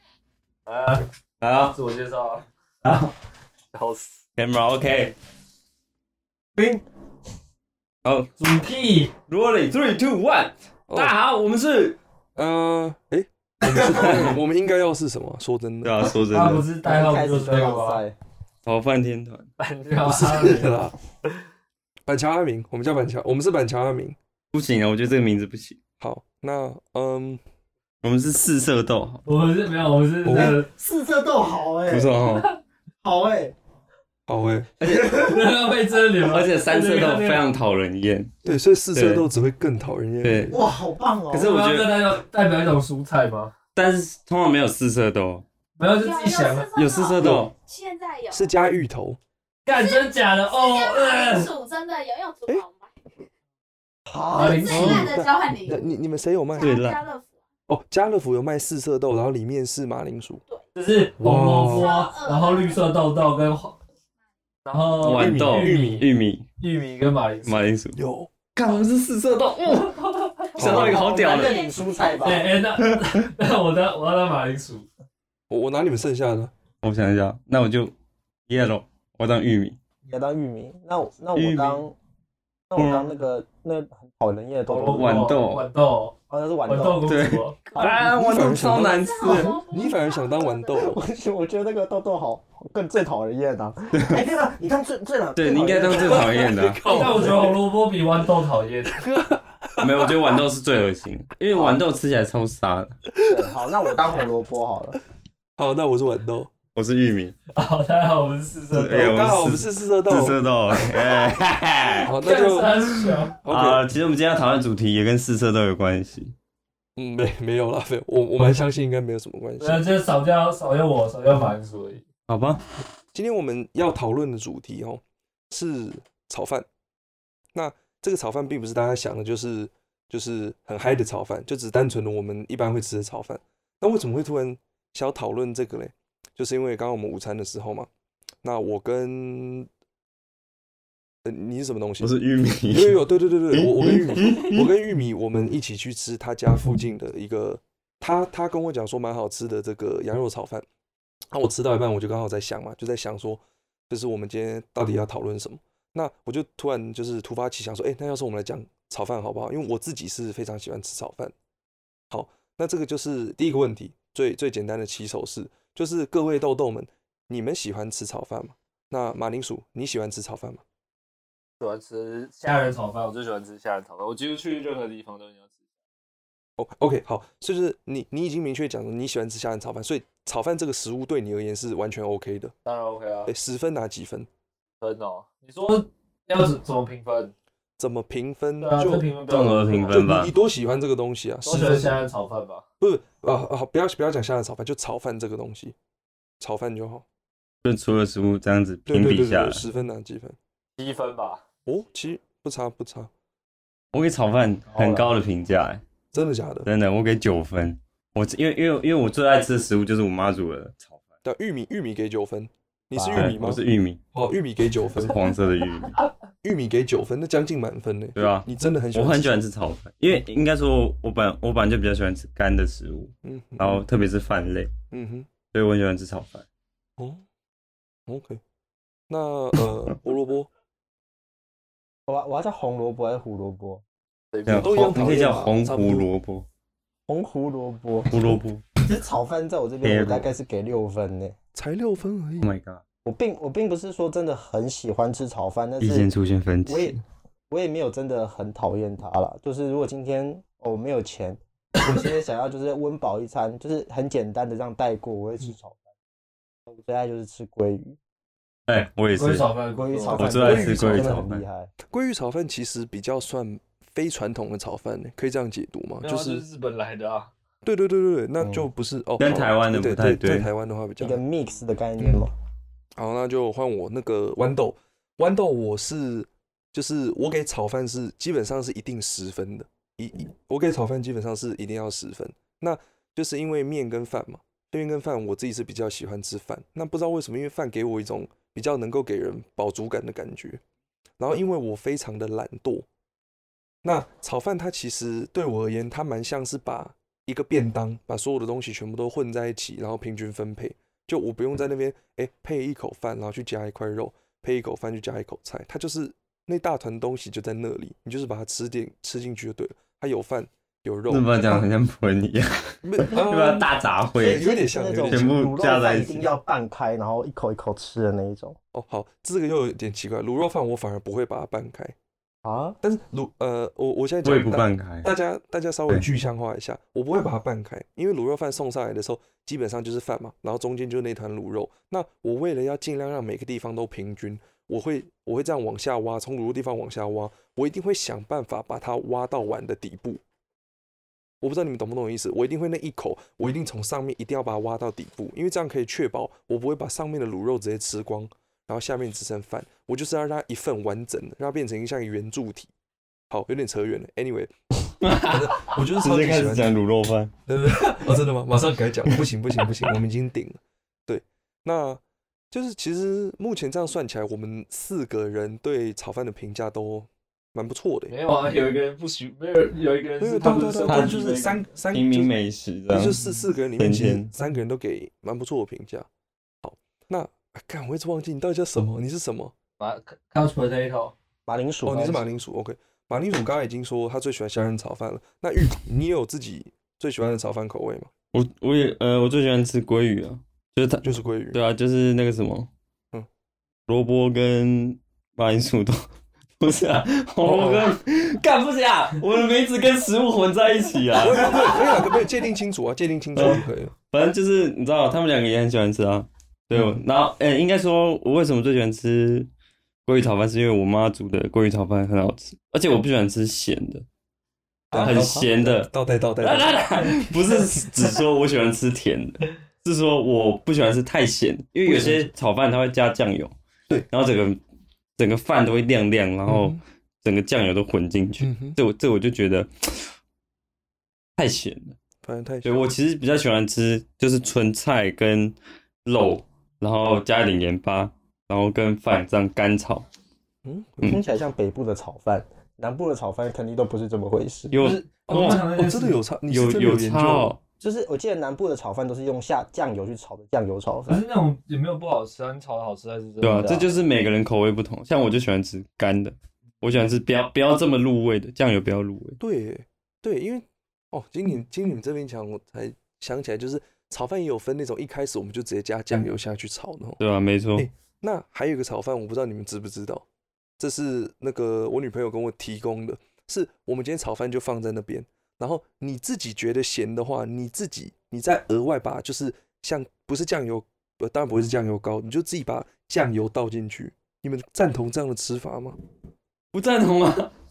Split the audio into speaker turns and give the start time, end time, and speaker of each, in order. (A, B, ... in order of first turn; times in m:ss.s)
0:00.6-0:02.4 A
0:01.4-0:01.8 B
0:02.8-0:03.1 B
0:03.7-0:04.2 A
0:04.4-0:05.2 B
0:08.0-0:08.3 B
0:08.4-0:09.1 A
0:09.3-0:12.0 B
0:10.9-0:11.1 C
0:12.4-0:16.1 C
0:13.6-0:14.3 B
0:15.8-0:16.6 B
0:16.3-0:18.0 A
0:16.8-0:18.1 D
0:18.6-0:19.5 B
0:19.6-0:21.4 A
0:20.0-0:20.9 C
0:22.1-0:24.2 C
0:24.5-0:25.8 B
0:26.0-0:27.4 C
0:28.0-0:29.2 B
0:29.2-0:30.7 A
0:30.2-0:30.6 C
0:30.3-0:32.1 D
0:31.9-0:32.5 B
0:33.0-0:33.6 D
0:34.3-0:34.7 C
0:34.8-0:35.3 B
0:34.9-0:35.4 D
0:35.1-0:37.5 A
0:36.2-0:38.4 B
0:38.4-0:40.6 C
0:38.9-0:39.3 B
0:40.2-0:40.6 B
0:40.5-0:41.5 D
0:41.3-0:43.5 A
0:41.3-0:41.9 B
0:43.8-0:45.4 B
0:45.8-0:46.7 A
0:46.0-0:48.5 E
0:46.8-0:47.5 B
0:47.2-0:47.4 C
0:48.3-0:49.2 C
0:49.6-0:51.5 A
0:49.7-0:52.9 E
0:54.1-0:55.0 D
0:54.3-0:55.9 E
0:54.4-0:55.2 A
0:54.7-0:56.8 C
0:56.5-0:57.3 E
0:56.6-0:57.0 B
0:57.7-1:00.4 C
1:00.7-1:03.8 A
1:01.2-1:01.9 C
1:01.7-1:02.8 E
1:04.6-1:06.1 A
1:05.0-1:06.4 B
1:05.1-1:06.0 C
1:06.6-1:07.6 A
1:07.5-1:08.0 B
1:07.9-1:08.3 C
1:08.6-1:11.7 B
1:09.6-1:10.6 A
1:10.6-1:11.0 C
1:10.6-1:12.5 D
1:11.2-1:12.4 E
1:12.2-1:14.9 A
1:15.5-1:16.5 C
1:16.8-1:17.9 B
1:18.5-1:19.8 B
1:20.0-1:21.9 D
1:21.4-1:21.8 B
1:22.7-1:25.3 D
1:22.8-1:23.1 B
1:24.7-1:26.1 A
1:24.9-1:25.7 B
1:26.3-1:28.8 D
1:26.7-1:27.6 A
1:27.0-1:29.6 B
1:27.8-1:31.0 C
1:28.8-1:30.9 E
1:30.8-1:36.5 D
1:33.9-1:34.2 B
1:35.3-1:37.1 B
1:35.5-1:37.6 C
1:36.8-1:39.0 A
1:38.9-1:40.4 C
1:39.8-1:42.9 B
1:41.5-1:41.8 D
1:43.1-1:43.5 C
1:43.2-1:45.0 D
1:45.6-1:46.5 C
1:46.7-1:47.3 B
1:47.5-1:49.4 A
1:48.7-1:52.1 B
1:48.9-1:50.4 C
1:52.0-1:52.8 C
1:52.1-1:53.3 A
1:53.4-1:53.8 C
1:53.5-1:56.3 B
1:57.0-1:59.8 C
1:59.6-2:02.0 A
2:02.3-2:02.6 B
2:03.1-2:06.6 C
2:07.5-2:17.9 C
2:18.4-2:19.7 C
2:21.2-2:22.1 C
2:22.0-2:23.0 B
2:22.7-2:30.6 C
2:23.5-2:24.7 B
2:31.3-2:41.3 C
2:42.1-2:50.6 C
2:51.6-2:55.5 A
2:56.6-3:02.5 C
3:02.6-3:03.3 A
3:03.3-3:04.3 C
3:04.8-3:07.3 A
3:07.8-3:09.1 C
3:08.6-3:10.0 A
3:09.3-3:10.3 B
3:09.9-3:12.0 C
3:11.4-3:12.6 A
3:12.8-3:15.7 C
3:16.4-3:17.0 C
3:17.6-3:19.6 B
3:18.9-3:20.4 C
3:20.8-3:21.4 A
3:21.6-3:23.1 C
3:23.9-3:25.8 B
3:24.7-3:25.1 A
3:26.1-3:26.7 C
3:26.6-3:30.9 B
3:31.2-3:33.6 C
3:33.0-3:34.0 B
3:34.1-3:35.2 C
3:35.0-3:36.0 B
3:36.4-3:39.4 C
3:38.2-3:44.7 B
3:43.2-3:43.8 C
3:44.9-3:45.3 C
3:45.5-3:46.4 B
3:47.0-3:47.2 C
3:48.1-3:48.4 C
3:49.1-3:50.5 C
3:52.1-3:53.8 D
3:54.3-3:54.9 A
3:54.4-3:56.4 B
3:54.6-3:56.1 C
3:57.1-4:01.4 D
3:58.1-3:58.6 B
3:59.8-4:00.3 B
4:01.5-4:02.5 C
4:02.4-4:02.8 B
4:03.0-4:06.1 D
4:05.8-4:07.0 B
4:06.6-4:07.0 D
4:07.5-4:15.8 D
4:16.7-4:18.0 D
4:18.7-4:19.4 B
4:19.1-4:20.7 A
4:19.7-4:21.7 D
4:20.1-4:21.4 B
4:20.3-4:21.2 C
4:21.8-4:26.4 C
4:26.0-4:27.3 A
4:27.6-4:31.2 C
4:28.4-4:28.7 D
4:29.2-4:30.5 B
4:31.0-4:32.3 D
4:33.0-4:50.6 C
4:51.2-4:52.8 C
4:53.8-5:11.6 C
5:11.1-5:14.5 B
5:12.8-5:15.4 C
5:14.2-5:18.6 D
5:15.1-5:16.3 B
5:18.7-5:21.9 C
5:22.4-5:22.8 D
5:22.8-5:40.2 C
5:24.2-5:25.1 B
5:41.4-5:52.7 C
5:53.3-5:54.5 C
5:55.0-5:57.3 B
5:55.1-5:56.7 C
5:57.5-6:08.1 C
6:08.1-6:11.6 A
6:10.2-6:12.3 C
6:10.8-6:13.2 B
6:12.9-6:16.1 C
6:13.8-6:14.3 B
6:16.6-6:19.5 C
6:19.8-6:21.1 A
6:21.5-6:22.2 D
6:21.8-6:28.1 C
6:28.3-6:32.7 B
6:31.0-6:31.6 C
6:33.9-6:36.0 B
6:36.6-6:42.1 B
6:37.4-6:37.9 C
6:41.2-6:43.9 C
6:43.4-6:49.5 B
6:46.7-6:47.0 C
6:50.0-6:54.0 B
6:54.9-6:58.1 C
6:54.9-6:55.9 B
6:55.0-6:55.2 A
6:56.4-7:03.5 B
7:01.8-7:02.3 C
7:04.1-7:04.6 B
7:05.2-7:10.1 B
7:06.4-7:06.8 C
7:08.4-7:08.8 C
7:11.4-7:11.9 B
7:12.2-7:12.7 C
7:12.6-7:20.0 B
7:20.6-7:21.2 C
7:21.0-7:24.8 D
7:24.7-7:25.6 B
7:24.8-7:27.5 C
7:25.3-7:26.2 A
7:26.5-7:27.6 B
7:27.8-7:31.2 D
7:31.1-7:33.8 A
7:33.4-7:39.4 B
7:33.6-7:33.8 D
7:39.4-7:47.2 C
7:47.2-7:47.9 B
7:47.7-7:50.2 C
7:50.8-8:06.0 C
8:06.7-8:07.5 B